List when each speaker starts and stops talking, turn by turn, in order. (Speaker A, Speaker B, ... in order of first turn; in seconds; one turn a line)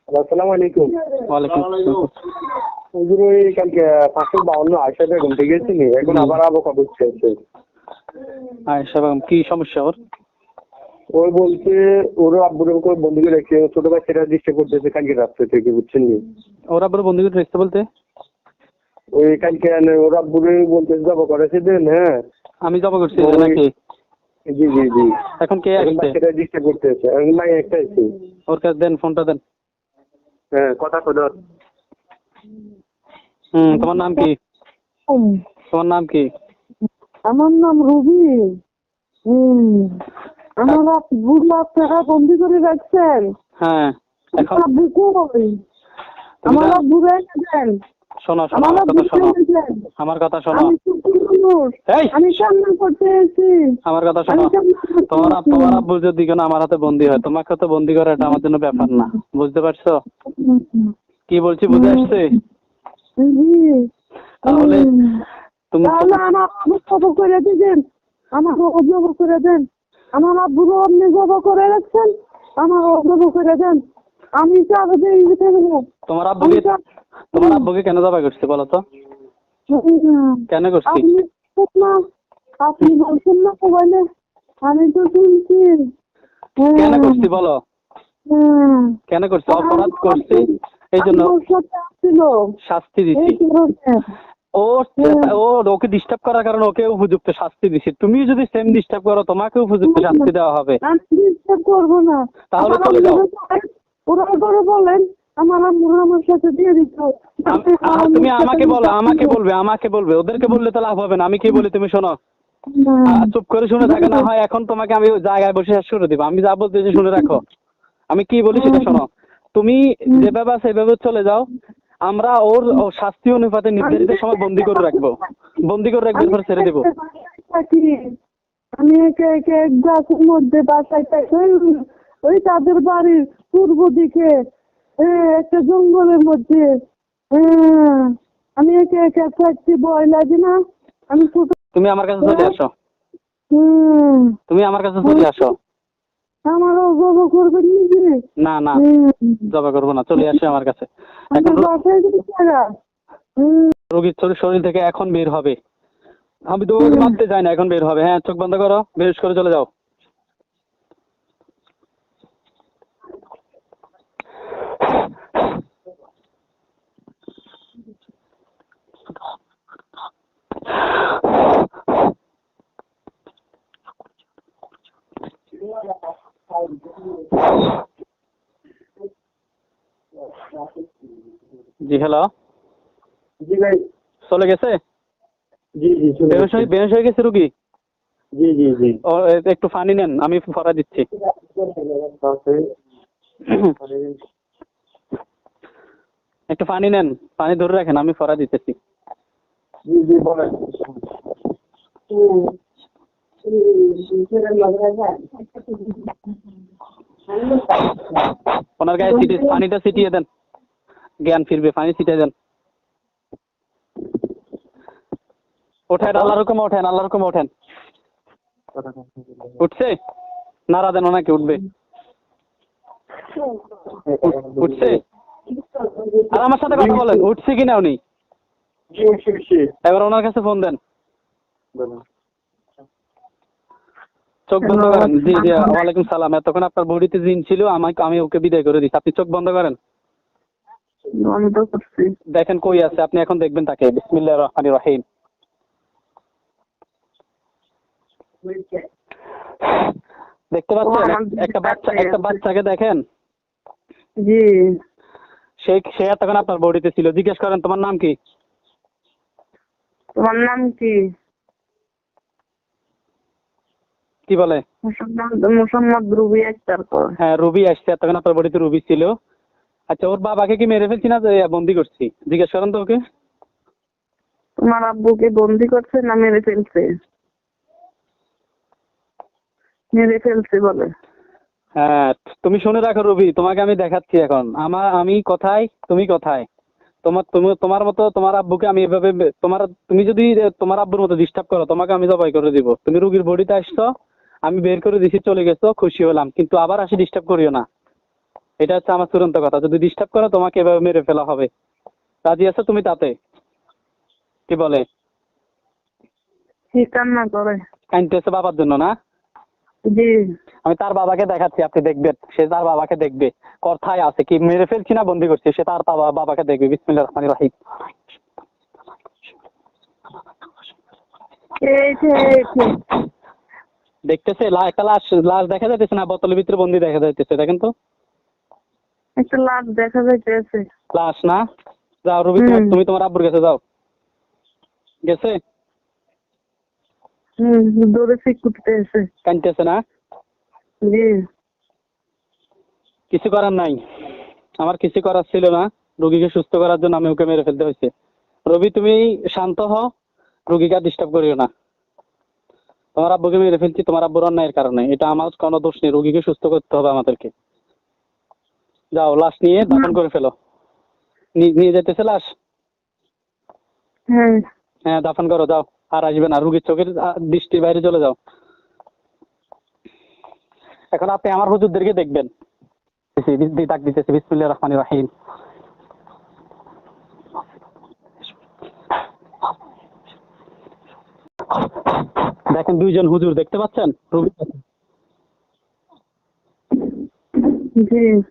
Speaker A: 0.1-0.9
Speaker B: 1.3-2.1
Speaker A: 3.0-7.3
Speaker B: 6.0-6.4
Speaker B: 8.7-9.9
Speaker A: 11.1-16.2
Speaker B: 16.7-17.8
Speaker A: 19.1-22.1
Speaker B: 22.6-23.7
Speaker A: 23.2-23.6
Speaker A: 24.5-25.1
Speaker B: 25.4-26.1
Speaker A: 25.8-28.1
Speaker B: 28.5-29.4
Speaker A: 30.6-31.3
Speaker B: 33.5-34.4
Speaker C: 33.8-34.2
Speaker C: 35.1-35.4
Speaker B: 35.7-36.3
Speaker C: 37.3-38.4
Speaker C: 39.3-40.0
Speaker C: 40.6-43.3
Speaker B: 43.6-44.6
Speaker C: 44.4-45.5
Speaker B: 46.4-46.8
Speaker C: 46.5-47.7
Speaker B: 48.2-49.3
Speaker C: 48.5-49.8
Speaker B: 50.0-50.7
Speaker C: 50.5-53.6
Speaker B: 51.9-52.1
Speaker B: 53.9-54.5
Speaker C: 54.3-55.8
Speaker B: 55.1-60.0
Speaker C: 60.3-60.9
Speaker B: 61.3-62.3
Speaker C: 61.7-62.2
Speaker C: 63.2-63.9
Speaker B: 64.4-64.9
Speaker C: 64.5-65.2
Speaker B: 65.7-66.2
Speaker C: 65.8-67.8
Speaker C: 68.3-73.8
Speaker C: 74.4-75.8
Speaker B: 76.1-76.7
Speaker C: 76.4-76.8
Speaker B: 77.3-78.8
Speaker C: 77.3-77.7
Speaker C: 79.7-82.0
Speaker B: 80.5-81.0
Speaker C: 82.6-84.0
Speaker C: 84.7-85.8
Speaker C: 86.6-87.3
Speaker B: 86.7-87.6
Speaker C: 88.3-89.0
Speaker B: 89.1-91.3
Speaker C: 89.5-92.4
Speaker B: 92.6-93.4
Speaker C: 93.1-94.0
Speaker B: 94.6-100.8
Speaker C: 95.0-95.3
Speaker C: 99.8-100.3
Speaker C: 100.8-109.3
Speaker B: 102.5-103.2
Speaker B: 107.5-112.1
Speaker C: 112.7-114.2
Speaker B: 113.0-117.4
Speaker C: 117.0-117.3
Speaker B: 118.1-121.5
Speaker C: 118.5-119.0
Speaker B: 122.0-126.8
Speaker C: 123.8-125.0
Speaker C: 126.2-128.0
Speaker C: 128.8-134.4
Speaker C: 135.0-136.7
Speaker C: 137.3-140.6
Speaker C: 141.1-141.6
Speaker B: 141.7-142.7
Speaker C: 142.2-142.5
Speaker C: 143.5-144.3
Speaker B: 144.5-145.5
Speaker C: 145.0-145.3
Speaker C: 146.4-148.2
Speaker B: 148.4-148.8
Speaker C: 148.7-149.4
Speaker B: 149.5-151.7
Speaker C: 151.3-152.7
Speaker C: 153.4-153.7
Speaker B: 153.9-155.6
Speaker B: 156.5-159.7
Speaker C: 156.8-157.1
Speaker B: 181.8-182.3
Speaker A: 183.4-183.8
Speaker B: 184.3-184.8
Speaker A: 185.8-186.7
Speaker B: 186.3-187.5
Speaker A: 188.4-189.0
Speaker B: 189.1-191.1
Speaker A: 191.6-192.6
Speaker B: 193.5-193.7
Speaker A: 193.8-194.2
Speaker B: 196.5-198.8
Speaker A: 199.9-200.9
Speaker C: 202.1-202.5
Speaker C: 203.4-205.9
Speaker C: 207.4-207.8
Speaker B: 208.8-210.2
Speaker C: 209.0-209.5
Speaker B: 211.2-212.3
Speaker B: 215.9-217.5
Speaker A: 218.8-219.0
Speaker B: 219.6-219.9
Speaker B: 220.7-221.6
Speaker A: 224.0-224.9
Speaker B: 224.2-225.0
Speaker B: 226.3-228.0
Speaker A: 226.7-227.2
Speaker A: 228.9-229.7
Speaker B: 229.8-230.8
Speaker A: 231.8-232.0
Speaker B: 234.5-239.8
Speaker C: 234.6-235.8
Speaker C: 241.2-242.1
Speaker B: 242.3-245.0
Speaker B: 250.5-253.0
Speaker C: 250.8-252.4
Speaker C: 254.2-254.5
Speaker B: 255.6-258.1
Speaker C: 260.1-261.0
Speaker B: 264.3-264.6
Speaker C: 264.8-267.1
Speaker B: 267.2-269.1
Speaker B: 269.9-273.0
Speaker C: 274.6-276.9
Speaker C: 279.9-280.9
Speaker B: 281.8-286.4
Speaker B: 287.0-293.9
Speaker B: 294.4-297.6
Speaker B: 298.6-301.5
Speaker B: 302.2-303.1
Speaker B: 304.5-304.9
Speaker C: 306.7-307.6
Speaker B: 307.9-308.9
Speaker C: 309.9-310.2
Speaker B: 310.6-317.5
Speaker C: 321.6-322.8
Speaker B: 324.1-327.7
Speaker C: 329.2-330.6
Speaker B: 330.9-331.4
Speaker B: 332.0-333.6
Speaker C: 332.4-332.8
Speaker B: 335.1-335.4
Speaker C: 337.4-339.1
Speaker B: 339.2-339.8
Speaker C: 340.9-341.1
Speaker B: 343.1-343.8
Speaker B: 344.6-347.9
Speaker B: 348.5-349.9
Speaker B: 350.5-351.5
Speaker B: 352.9-357.3
Speaker B: 358.9-360.3
Speaker C: 359.7-359.9
Speaker B: 361.4-362.3
Speaker C: 364.1-364.4
Speaker B: 364.9-368.1
Speaker B: 370.9-372.3
Speaker B: 373.1-375.1
Speaker B: 382.5-384.6
Speaker C: 387.5-388.1